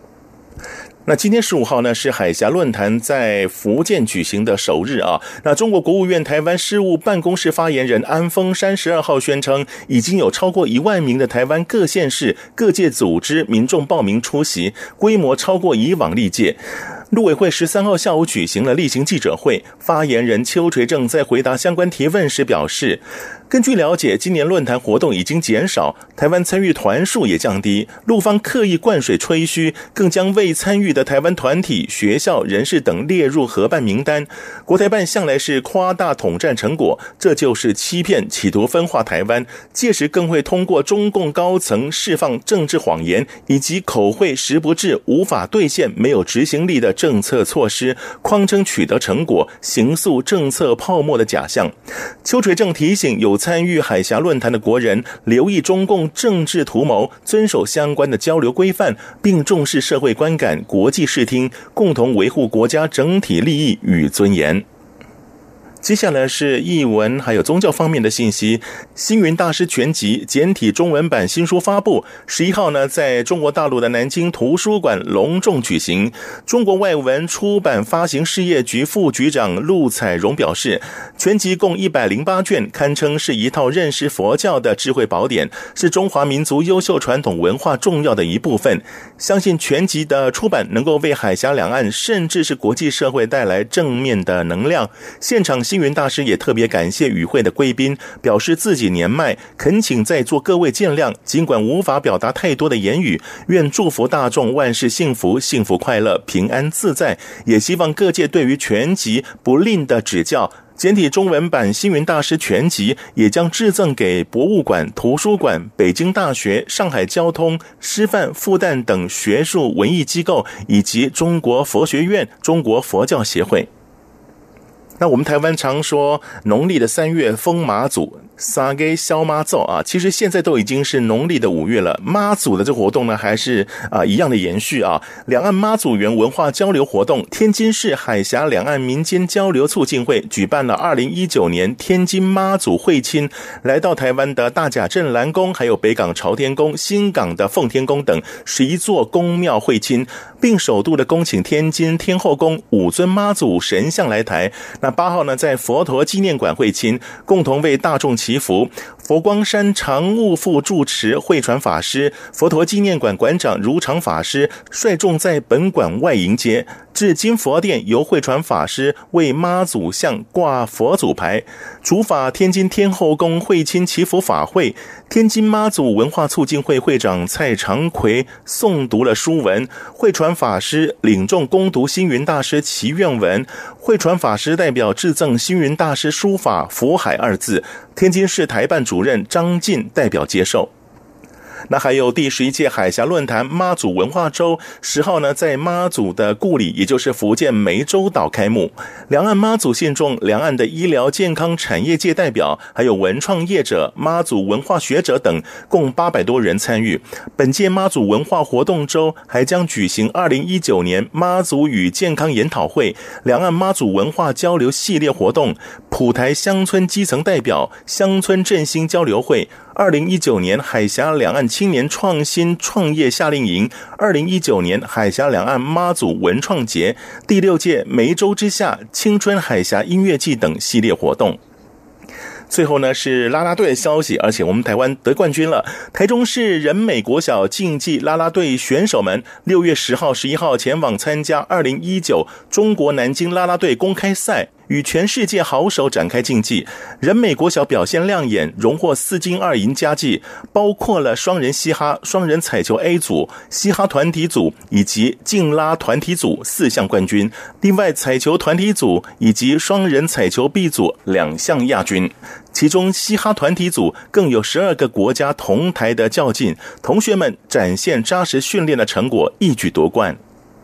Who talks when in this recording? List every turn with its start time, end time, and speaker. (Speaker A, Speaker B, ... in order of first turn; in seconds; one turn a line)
Speaker A: 1.1-51.7
Speaker A: 52.2-64.7
Speaker A: 65.8-123.7
Speaker A: 125.0-190.7
Speaker A: 191.7-231.4
Speaker A: 232.5-270.2